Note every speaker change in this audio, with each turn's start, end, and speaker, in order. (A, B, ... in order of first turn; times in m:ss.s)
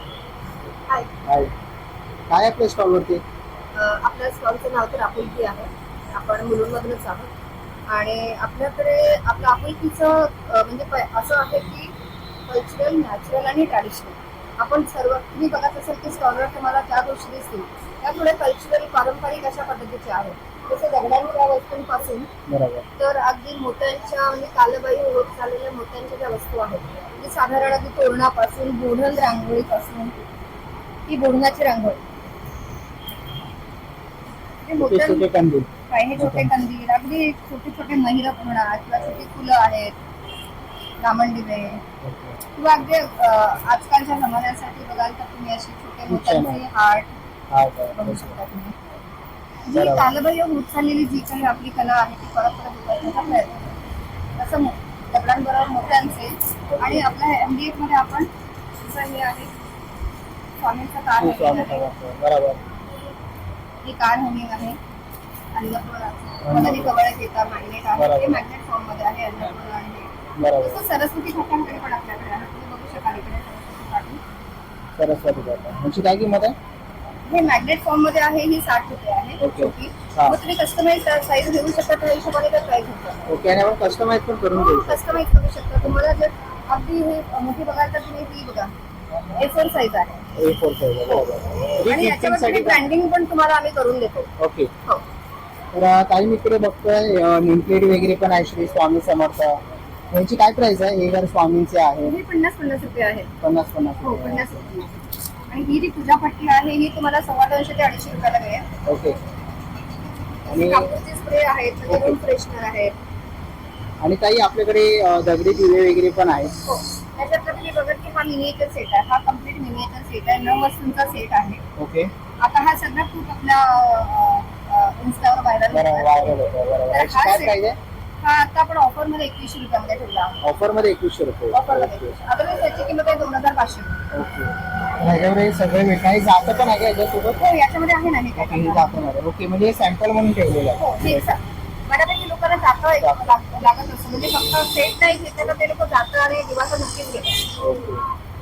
0:01.2-0:01.5 A
0:02.3-0:03.2 A
0:03.7-0:07.3 B
0:07.9-0:11.9 B
0:12.5-0:22.3 B
0:22.5-0:22.8 A
0:23.0-0:30.2 B
0:31.1-0:32.0 B
0:34.6-0:35.3 B
0:34.8-0:36.5 A
0:35.9-0:39.9 B
0:41.0-0:41.8 B
0:42.0-0:42.4 A
0:42.6-0:47.1 B
0:46.1-0:46.6 A
0:47.5-0:48.4 A
0:47.9-0:48.7 B
0:49.6-0:53.7 B
0:49.7-0:50.1 A
0:54.4-0:59.5 B
0:56.7-0:57.1 A
1:00.6-1:01.9 B
1:01.2-1:02.6 A
1:03.8-1:04.8 B
1:05.5-1:14.2 B
1:06.4-1:07.0 A
1:08.0-1:08.4 A
1:10.4-1:10.8 A
1:15.0-1:16.6 A
1:17.3-1:23.3 B
1:19.4-1:20.4 A
1:23.3-1:25.2 A
1:24.5-1:28.7 B
1:29.3-1:30.2 B
1:30.3-1:32.8 A
1:31.7-1:34.3 B
1:34.4-1:34.7 A
1:35.7-1:42.2 A
1:42.0-1:43.3 B
1:43.4-1:44.8 A
1:44.0-1:44.9 B
1:45.5-1:48.7 B
1:48.8-1:49.2 A
1:50.5-1:50.9 A
1:50.5-1:52.9 B
1:51.9-1:52.2 A
1:54.0-1:56.5 A
1:56.7-2:01.6 B
2:01.8-2:02.1 A
2:02.4-2:06.4 B
2:05.7-2:07.8 A
2:06.9-2:07.6 B
2:08.2-2:10.4 B
2:10.4-2:12.2 A
2:11.5-2:14.0 B
2:14.1-2:17.4 A
2:17.4-2:19.0 B
2:18.4-2:21.3 A
2:20.8-2:27.4 B
2:23.0-2:23.3 A
2:27.6-2:28.0 A